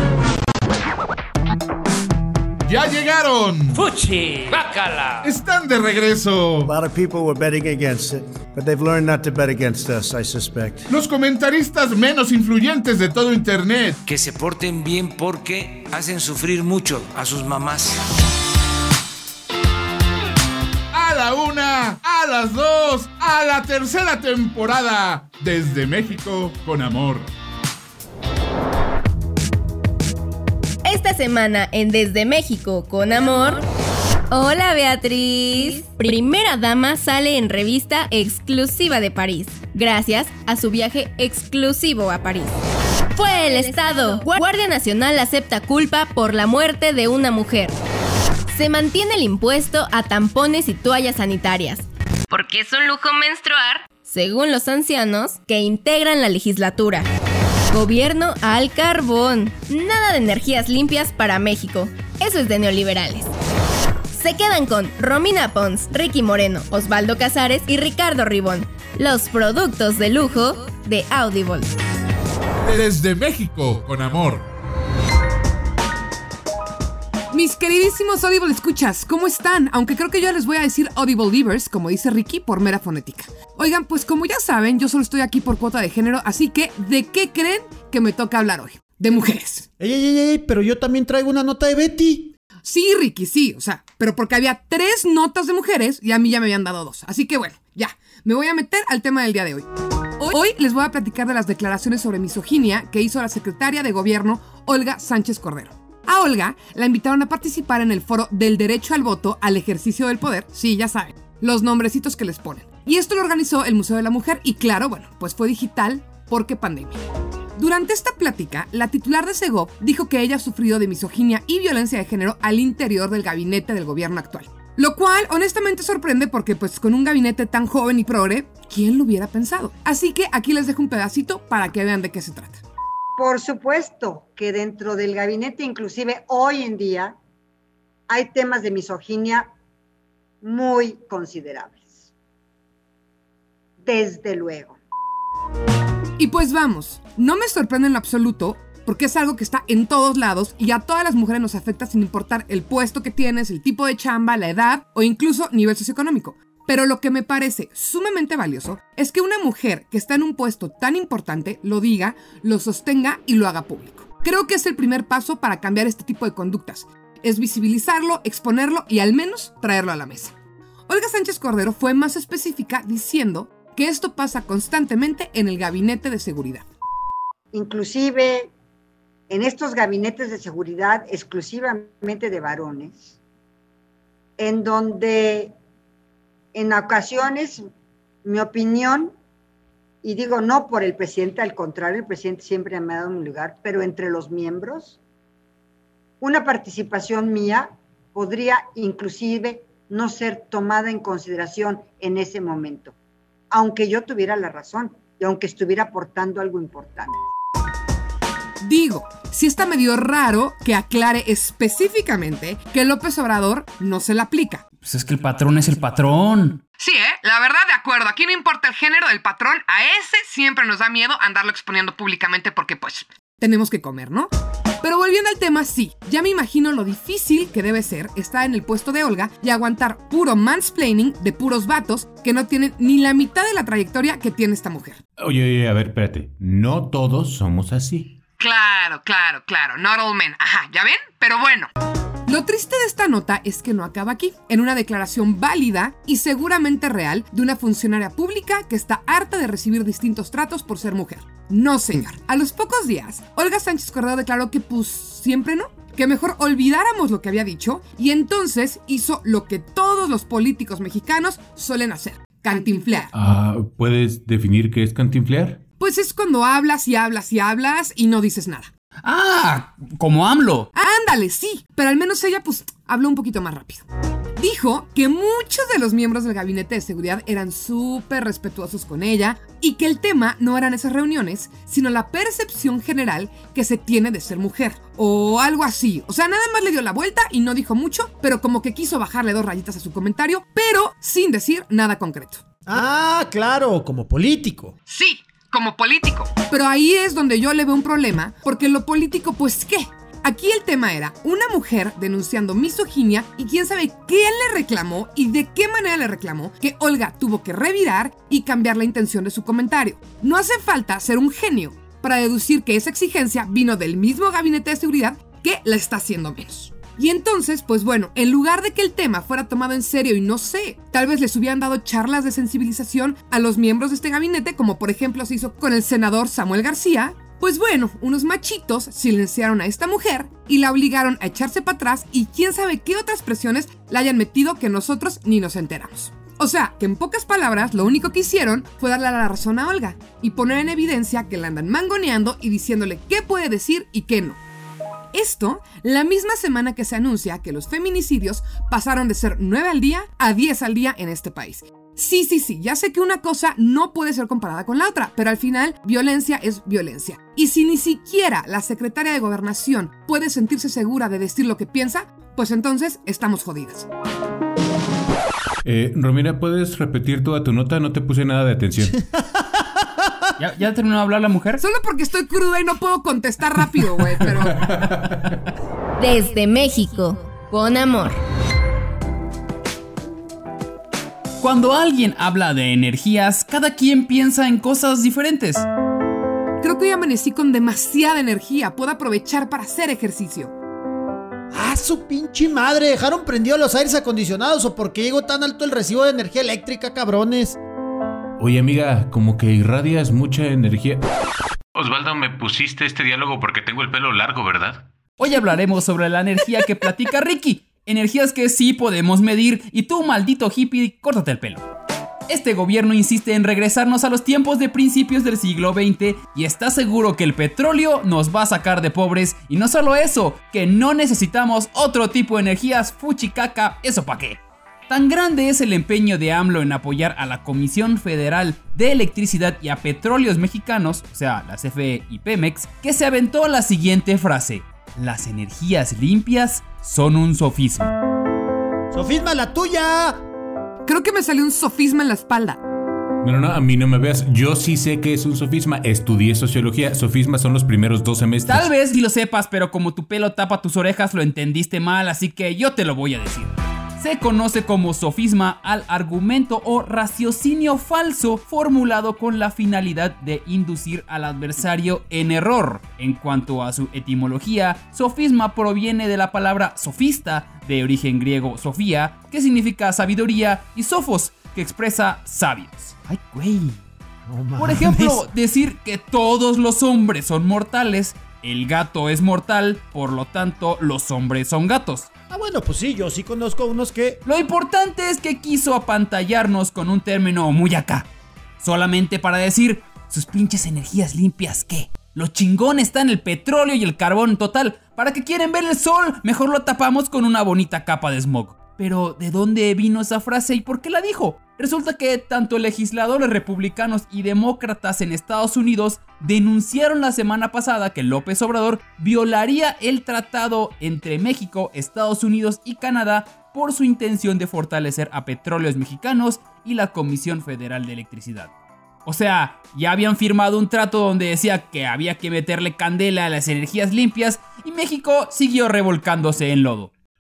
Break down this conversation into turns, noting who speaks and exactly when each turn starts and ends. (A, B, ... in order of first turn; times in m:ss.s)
0:02.6-0:03.8 A
0:03.7-0:05.3 B
0:05.2-0:06.7 A
0:06.6-0:10.9 C
0:10.9-0:14.0 A
0:14.0-0:18.0 B
0:20.9-0:27.3 A
0:30.8-0:33.6 D
0:34.3-0:42.6 D
0:43.2-0:47.8 D
0:48.5-0:57.1 D
0:57.7-1:03.3 D
1:04.1-1:11.7 D
1:12.6-1:14.4 A
1:17.3-1:29.7 E
1:29.8-1:32.3 F
1:32.6-1:39.7 E
1:40.2-1:57.0 E
1:57.6-2:12.6 E
2:13.2-2:17.2 G
2:18.1-2:19.5 G
2:20.4-2:22.1 G
2:23.8-2:24.8 G
2:26.2-2:50.4 E
2:50.9-2:56.7 E
2:57.5-2:58.5 G
2:59.3-3:03.2 G
3:04.4-3:05.6 G
3:06.5-3:07.6 G
3:08.2-3:09.2 G
3:10.0-3:15.0 G
3:16.2-3:23.0 G
3:23.5-3:27.2 G
3:28.6-3:34.6 E
3:34.8-3:36.6 H
3:36.8-3:44.3 E
3:44.8-3:55.0 E
3:55.2-3:58.1 I
3:58.4-4:01.7 E
4:02.3-4:23.1 E
4:23.1-4:25.6 I
4:25.8-4:28.7 E
4:29.0-4:30.7 H
4:30.8-4:33.9 E
4:34.4-4:52.4 E
4:52.7-4:54.8 F
4:54.9-5:44.4 E
5:45.1-6:03.9 E
6:05.6-6:09.1 I
6:10.4-6:11.6 H
6:11.6-6:14.8 E
6:14.7-6:15.2 I
6:16.0-6:18.2 D
6:21.4-6:25.7 H
6:26.6-6:30.5 E
6:31.5-6:37.6 F
6:38.4-6:41.1 I
6:41.8-6:44.9 I
6:45.2-6:51.6 H
6:52.3-7:17.9 H
7:18.9-7:20.2 F
7:20.9-7:22.6 E
7:23.2-7:28.7 I
7:28.5-7:53.8 H
7:53.2-7:53.6 F
7:54.3-7:55.3 F
7:54.6-8:02.1 H
8:02.3-8:04.2 F
8:04.2-8:08.1 H
8:08.6-8:38.5 H
8:39.1-8:46.9 H